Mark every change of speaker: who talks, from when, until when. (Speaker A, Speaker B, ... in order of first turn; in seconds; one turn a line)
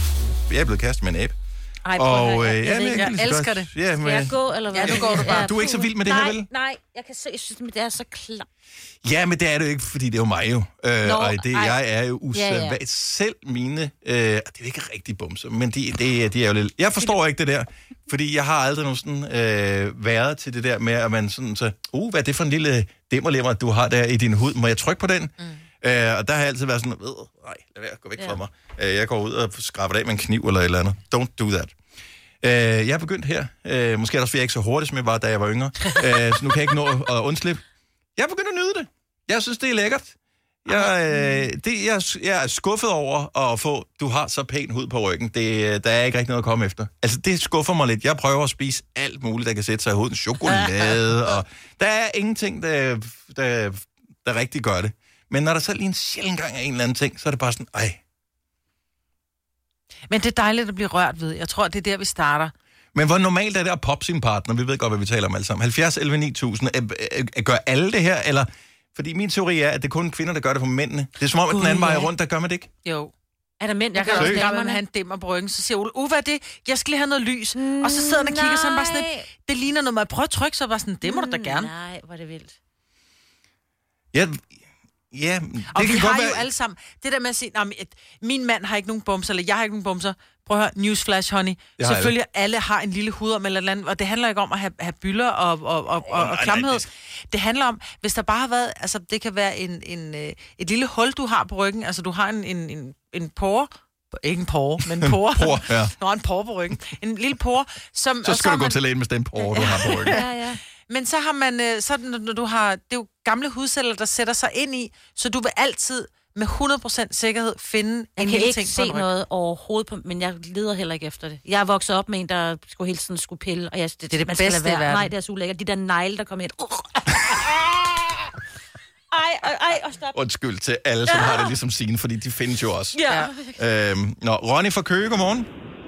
Speaker A: 0.5-1.3
Speaker B: 1.9-3.7
Speaker A: 1.9-6.5
Speaker C: 2.2-2.7
Speaker C: 4.0-8.5
Speaker B: 4.7-5.5
Speaker A: 9.0-31.7
Speaker C: 11.0-11.8
Speaker C: 12.3-12.8
Speaker A: 32.4-37.6
Speaker A: 38.2-58.0
Speaker B: 60.1-62.5
Speaker A: 63.0-72.7
Speaker B: 71.5-72.1
Speaker B: 72.8-73.1
Speaker C: 73.6-74.8
Speaker B: 73.9-81.7
Speaker A: 74.1-74.4
Speaker C: 77.6-79.2
Speaker C: 81.0-82.5
Speaker A: 84.1-84.4
Speaker A: 85.1-86.5
Speaker B: 85.7-108.8
Speaker A: 91.8-92.1
Speaker A: 96.0-96.9
Speaker A: 105.2-105.9
Speaker A: 108.2-110.2
Speaker B: 109.3-110.2
Speaker C: 110.0-110.6
Speaker B: 110.8-119.1
Speaker C: 118.2-127.7
Speaker B: 124.1-125.1
Speaker C: 129.1-130.2
Speaker A: 130.1-133.0
Speaker C: 131.1-131.6
Speaker C: 132.9-133.6
Speaker B: 133.1-133.3
Speaker A: 133.6-135.5